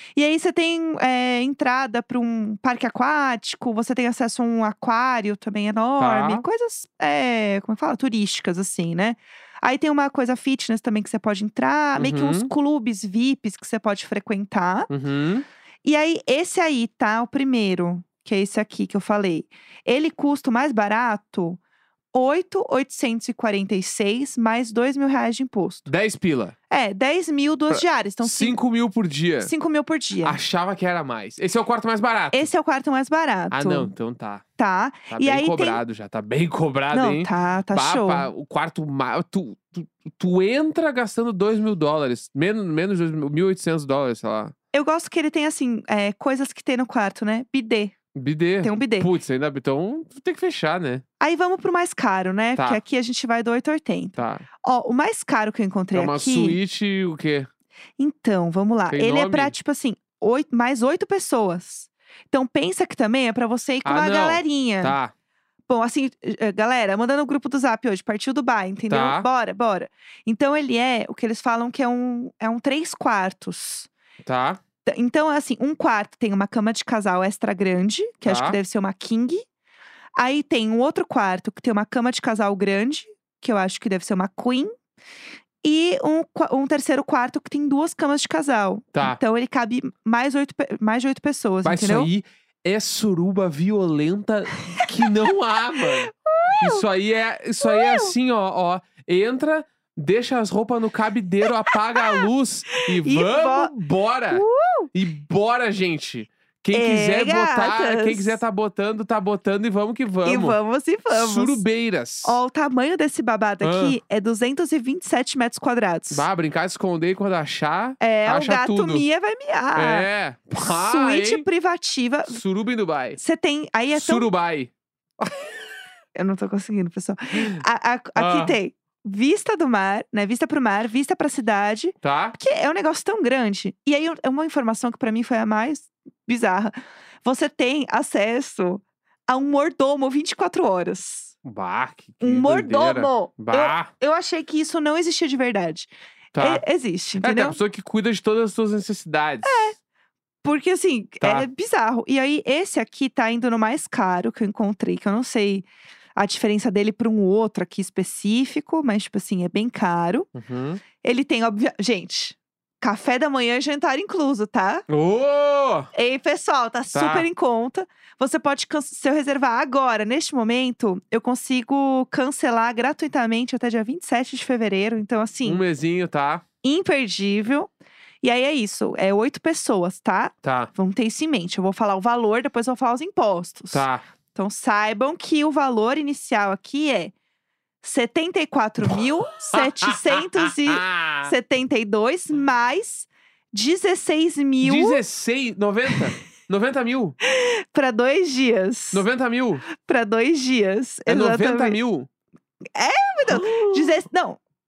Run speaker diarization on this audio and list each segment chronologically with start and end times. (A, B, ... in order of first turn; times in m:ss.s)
0:00.2-0:14.9 A
0:06.0-0:06.4 B
0:12.0-0:12.5 B
0:14.9-0:15.4 B
0:15.8-0:21.6 A
0:22.1-0:25.9 A
0:25.9-0:26.6 B
0:26.7-0:28.6 A
0:27.7-0:29.5 B
0:29.4-0:30.4 A
0:30.2-0:32.5 B
0:32.3-0:33.9 A
0:33.5-0:34.4 B
0:34.6-0:35.8 A
0:35.1-0:44.5 B
0:36.9-0:38.3 A
0:44.7-0:48.0 A
0:48.1-0:51.0 B
0:48.6-0:49.1 A
0:51.2-0:56.6 A
0:52.6-0:52.8 B
0:54.2-0:54.5 B
0:55.9-0:57.5 B
0:58.0-1:05.0 A
0:58.9-0:59.5 B
1:03.8-1:05.1 B
1:05.7-1:13.9 A
1:08.9-1:09.3 B
1:14.2-1:14.6 B
1:14.8-1:19.4 A
1:18.3-1:18.6 B
1:20.2-1:24.7 A
1:25.6-1:32.1 A
1:31.6-1:50.6 B
1:34.7-1:35.1 A
1:35.8-1:36.8 A
1:37.6-1:38.1 A
1:41.7-1:43.7 A
1:44.3-1:44.9 A
1:46.7-1:48.4 A
1:50.2-1:51.6 A
1:51.1-1:52.4 B
1:52.2-1:56.3 A
1:53.6-1:54.0 B
1:56.1-1:59.1 B
1:58.0-2:02.4 A
1:59.8-2:01.5 B
2:02.3-2:03.2 B
2:03.2-2:04.3 A
2:03.9-2:04.7 B
2:06.2-2:21.3 A
2:08.2-2:08.6 B
2:12.0-2:12.4 B
2:21.4-2:23.9 B
2:22.2-2:27.6 A
2:26.4-2:26.6 B
2:27.2-2:29.6 B
2:29.4-2:29.8 A
2:30.4-2:40.3 A
2:31.2-2:31.5 B
2:40.4-2:40.8 B
2:41.0-2:44.9 A
2:44.9-2:45.9 B
2:45.9-2:55.6 A
2:46.9-2:47.3 B
2:55.4-2:56.4 B
2:56.6-2:57.7 A
2:58.2-3:07.1 A
3:00.4-3:00.7 B
3:03.7-3:04.0 B
3:07.8-3:15.0 A
3:09.5-3:11.3 B
3:14.6-3:17.2 B
3:17.2-3:19.0 A
3:18.9-3:19.6 B
3:19.7-3:21.8 A
3:21.1-3:22.1 B
3:22.8-3:24.4 A
3:23.3-3:24.0 B